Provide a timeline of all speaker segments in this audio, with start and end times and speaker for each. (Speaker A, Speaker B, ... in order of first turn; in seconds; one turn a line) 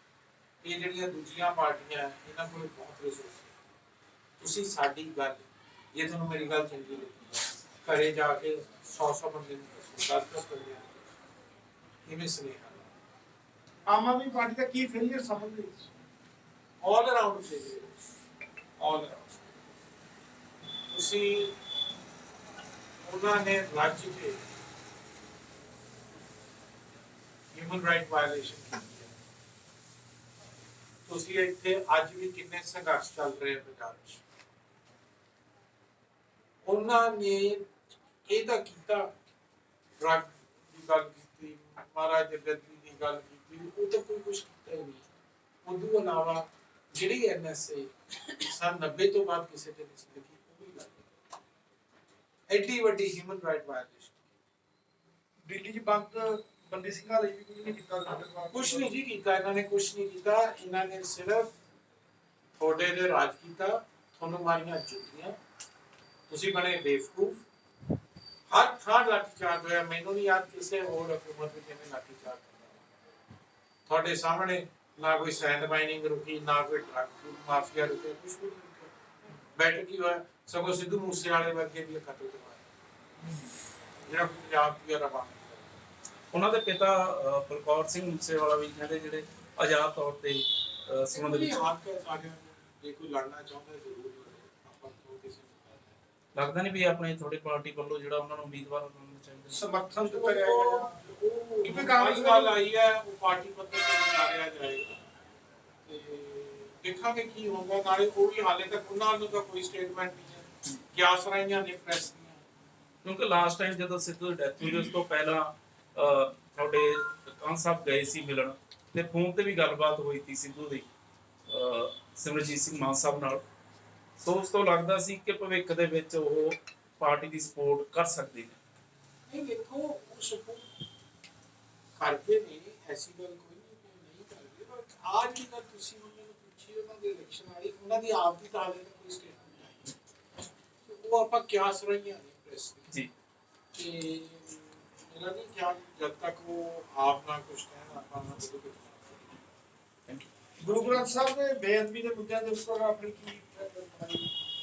Speaker A: 0.6-3.5
Speaker A: 4.4-11.1
Speaker A: 12.1-12.8
Speaker B: 13.9-15.9
Speaker A: 16.8-17.9
Speaker B: 18.8-19.3
Speaker A: 20.9-21.5
Speaker A: 23.0-24.4
Speaker A: 27.5-29.1
Speaker A: 31.1-34.2
Speaker A: 36.6-37.7
Speaker A: 38.3-39.1
Speaker A: 40.0-45.0
Speaker A: 45.6-51.1
Speaker A: 52.5-54.2
Speaker B: 55.5-58.9
Speaker A: 58.5-61.5
Speaker A: 62.6-65.3
Speaker A: 66.3-67.4
Speaker A: 68.5-72.8
Speaker A: 73.9-78.9
Speaker A: 79.5-82.6
Speaker A: 84.0-85.8
Speaker C: 86.3-91.6
Speaker A: 91.1-95.9
Speaker C: 96.3-99.6
Speaker B: 99.5-101.0
Speaker A: 100.0-105.0
Speaker B: 101.6-102.5
Speaker A: 105.8-112.4
Speaker C: 113.0-120.9
Speaker C: 121.5-123.4
Speaker C: 124.2-128.6
Speaker A: 129.3-130.7
Speaker A: 132.0-139.9
Speaker A: 140.8-142.9
Speaker A: 143.7-149.4
Speaker B: 150.6-154.3